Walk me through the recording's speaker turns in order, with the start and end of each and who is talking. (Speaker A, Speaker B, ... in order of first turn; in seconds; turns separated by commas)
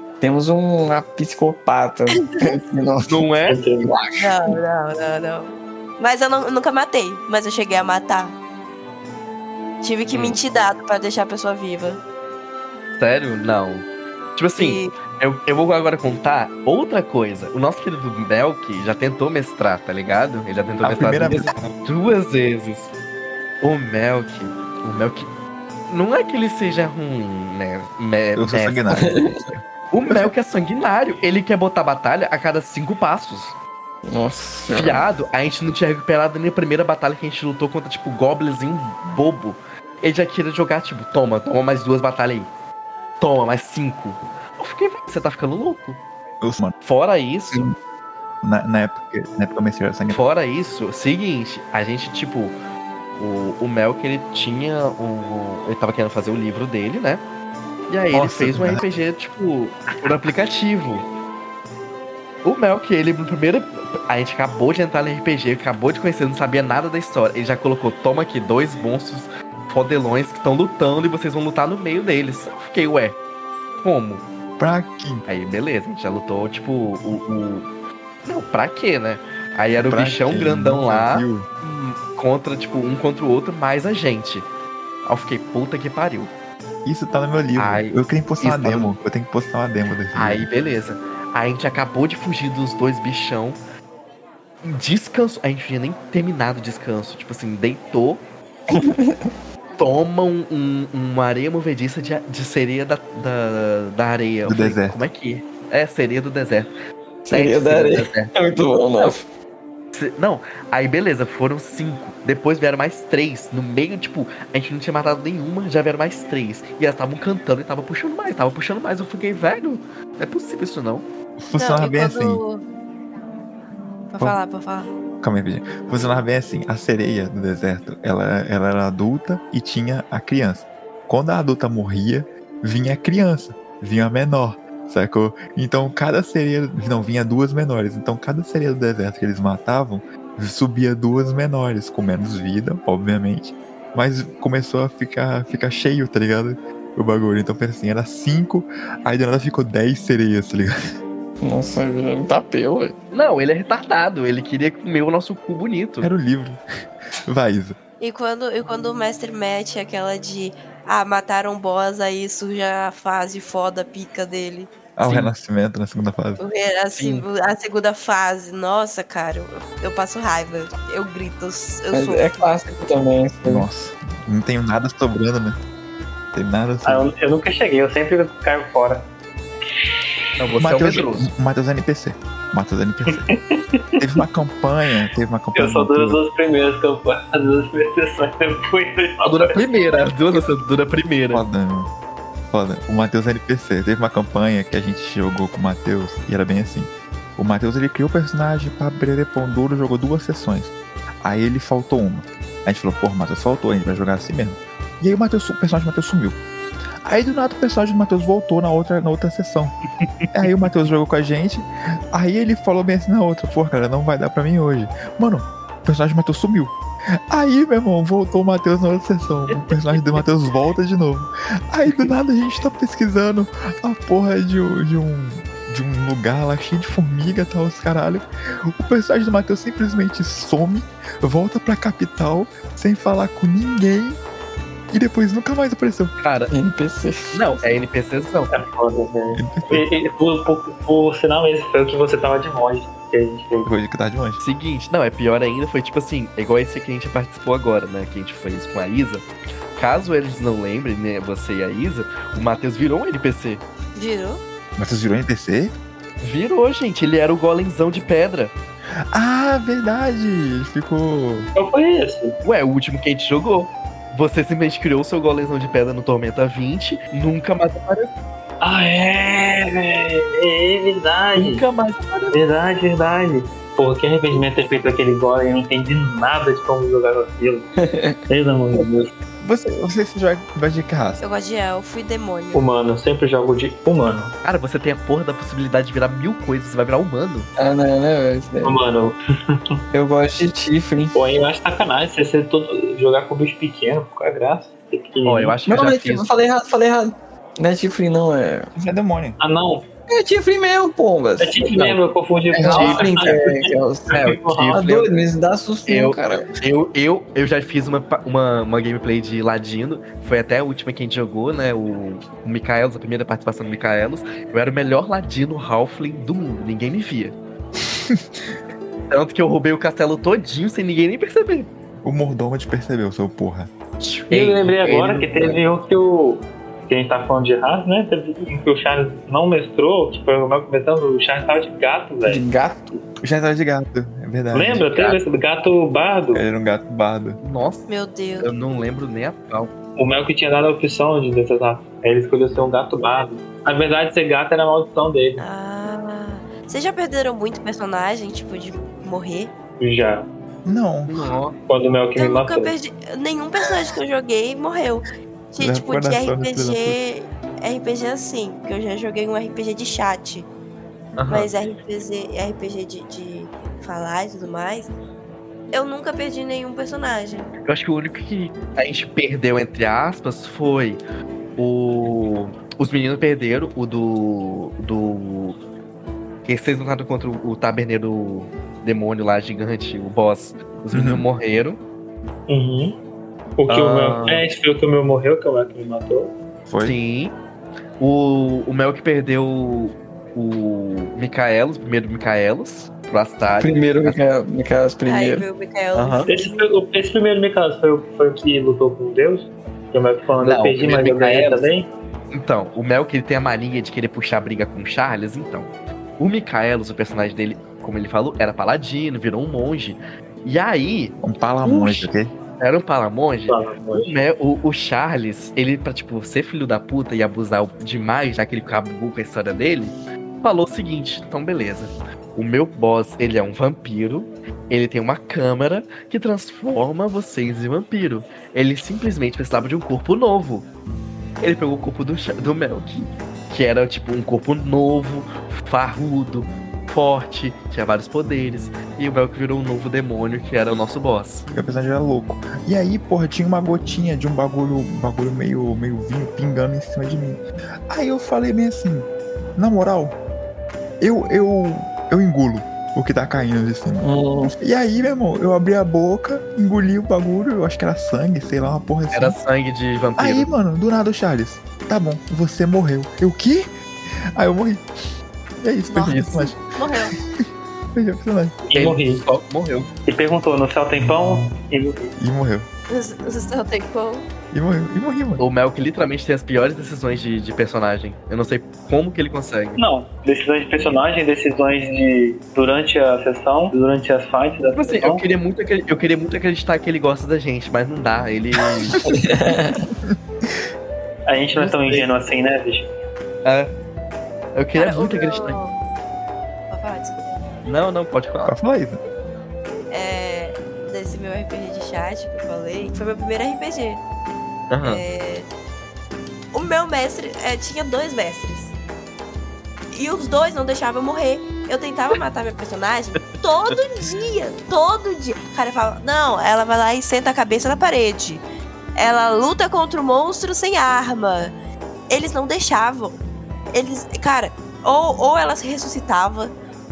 Speaker A: 0.2-3.2, Speaker B: 3.1-3.6, Speaker C: 3.5-3.9, Speaker A: 3.8-4.5, Speaker D: 4.2-8.3, Speaker D: 9.8-12.0, Speaker B: 10.1-10.4, Speaker B: 13.0-22.9, Speaker D: 14.6-14.9, Speaker E: 20.8-21.7, Speaker B: 23.6-25.3, Speaker B: 25.9-28.9, Speaker E: 28.4-30.3, Speaker A: 29.0-29.4, Speaker B: 29.9-33.5, Speaker A: 34.1-35.0, Speaker B: 34.7-42.5, Speaker B: 43.2-46.0, Speaker E: 46.4-46.7, Speaker B: 46.8-47.6, Speaker E: 48.4-50.2, Speaker B: 50.1-52.5, Speaker B: 53.2-57.2, Speaker B: 57.9-61.0, Speaker E: 58.1-58.9, Speaker B: 62.4-73.2, Speaker B: 73.8-74.2, Speaker E: 74.6-75.2, Speaker B: 75.3-77.7, Speaker B: 78.2-84.5, Speaker E: 79.8-81.5, Speaker B: 85.0-86.3, Speaker E: 86.8-90.5, Speaker B: 87.6-88.9, Speaker B: 90.1-93.6, Speaker B: 94.6-98.2, Speaker A: 98.7-99.2, Speaker B: 99.8-106.7, Speaker E: 104.5-105.0, Speaker A: 107.2-109.2, Speaker B: 107.3-108.3, Speaker B: 109.9-121.0, Speaker E: 121.4-122.4, Speaker D: 121.6-122.6, Speaker D: 124.1-124.9, Speaker E: 125.2-150.7, Speaker A: 151.4-152.9, Speaker B: 153.1-156.1, Speaker E: 156.0-156.6, Speaker E: 157.2-157.8, Speaker D: 158.0-164.7, Speaker E: 165.0-166.4, Speaker D: 166.4-172.5, Speaker B: 166.9-167.2, Speaker A: 171.9-173.7, Speaker E: 173.4-175.6, Speaker E: 176.3-177.1, Speaker C: 176.8-179.1, Speaker B: 180.4-181.3, Speaker E: 180.6-183.3, Speaker C: 183.1-184.0, Speaker E: 184.0-186.2, Speaker C: 185.5-189.7, Speaker B: 189.2-191.4, Speaker E: 191.3-191.9, Speaker E: 192.5-206.3, Speaker E: 207.0-209.7, Speaker B: 210.0-210.5, Speaker E: 210.3-216.7, Speaker E: 217.3-234.2, Speaker B: 219.5-220.2, Speaker B: 221.8-222.1, Speaker E: 234.9-236.1, Speaker B: 236.2-236.5, Speaker A: 236.5-237.4, Speaker B: 237.3-238.5, Speaker C: 238.5-243.7, Speaker E: 239.3-239.8, Speaker E: 243.6-244.4, Speaker B: 244.4-253.6, Speaker D: 253.9-254.4, Speaker E: 254.8-255.7, Speaker B: 256.2-258.5, Speaker E: 259.1-261.5, Speaker C: 261.6-262.3, Speaker B: 262.4-268.1, Speaker C: 268.6-271.6, Speaker B: 271.3-272.4, Speaker C: 272.3-277.7, Speaker A: 277.8-278.2, Speaker C: 278.3-279.1, Speaker E: 279.4-281.2, Speaker D: 281.2-282.6, Speaker C: 282.5-284.3, Speaker B: 284.4-287.5, Speaker A: 287.6-288.8, Speaker C: 288.6-289.8, Speaker A: 289.9-291.1, Speaker C: 291.1-295.6, Speaker B: 295.2-296.3, Speaker A: 295.7-298.7, Speaker E: 298.8-299.4, Speaker C: 299.4-299.8, Speaker A: 300.1-302.0, Speaker C: 301.4-305.1, Speaker A: 302.5-306.5, Speaker B: 302.6-303.3, Speaker B: 305.9-317.4, Speaker B: 319.1-321.7, Speaker E: 322.0-323.7, Speaker B: 324.0-325.6, Speaker C: 324.3-332.4, Speaker A: 332.2-333.0, Speaker E: 333.2-335.1, Speaker C: 334.5-336.4, Speaker E: 336.3-337.4, Speaker B: 337.4-337.9, Speaker D: 337.9-338.5, Speaker B: 338.4-339.7, Speaker C: 340.0-345.4, Speaker D: 345.4-349.5, Speaker C: 349.8-350.2, Speaker E: 350.6-351.1, Speaker B: 351.1-351.5, Speaker C: 351.7-352.7, Speaker D: 352.1-360.5, Speaker E: 355.6-357.0, Speaker B: 361.2-361.5, Speaker D: 361.3-364.9, Speaker D: 365.7-367.5, Speaker B: 367.6-371.0, Speaker B: 371.6-375.6, Speaker B: 376.4-381.8, Speaker E: 380.9-381.2, Speaker C: 382.5-382.9, Speaker C: 383.6-386.3, Speaker E: 384.1-384.3, Speaker E: 386.7-387.0, Speaker B: 386.8-387.4, Speaker B: 388.0-394.2, Speaker A: 393.6-395.4, Speaker D: 395.0-396.6, Speaker B: 395.9-396.3, Speaker C: 396.3-401.9, Speaker B: 400.4-401.7, Speaker B: 402.3-430.6, Speaker E: 411.2-412.3, Speaker C: 413.5-414.1, Speaker B: 431.4-441.4, Speaker E: 441.5-447.4, Speaker E: 447.9-450.1, Speaker E: 451.0-454.1, Speaker A: 454.0-454.5, Speaker E: 454.6-459.4, Speaker B: 459.1-460.5, Speaker E: 460.2-463.7, Speaker E: 464.4-464.8, Speaker E: 465.6-466.6, Speaker D: 465.9-467.1, Speaker E: 467.2-468.5, Speaker C: 468.7-469.2, Speaker B: 468.7-469.9, Speaker C: 470.1-472.1, Speaker E: 470.9-471.5, Speaker E: 472.2-472.7, Speaker D: 472.9-474.2, Speaker E: 474.5-475.4, Speaker B: 475.4-479.8, Speaker C: 479.8-485.2, Speaker B: 484.7-489.1, Speaker A: 489.1-489.9, Speaker C: 491.3-492.9, Speaker B: 491.6-492.1, Speaker B: 493.4-493.7, Speaker B: 494.6-495.6, Speaker D: 494.8-495.7, Speaker D: 496.7-497.3, Speaker B: 497.6-498.5, Speaker E: 498.4-499.0, Speaker D: 499.9-504.0, Speaker B: 504.7-505.0, Speaker D: 504.8-505.4, Speaker D: 506.5-508.7, Speaker D: 509.9-518.4, Speaker D: 519.0-521.5, Speaker D: 522.1-523.2, Speaker D: 523.7-526.5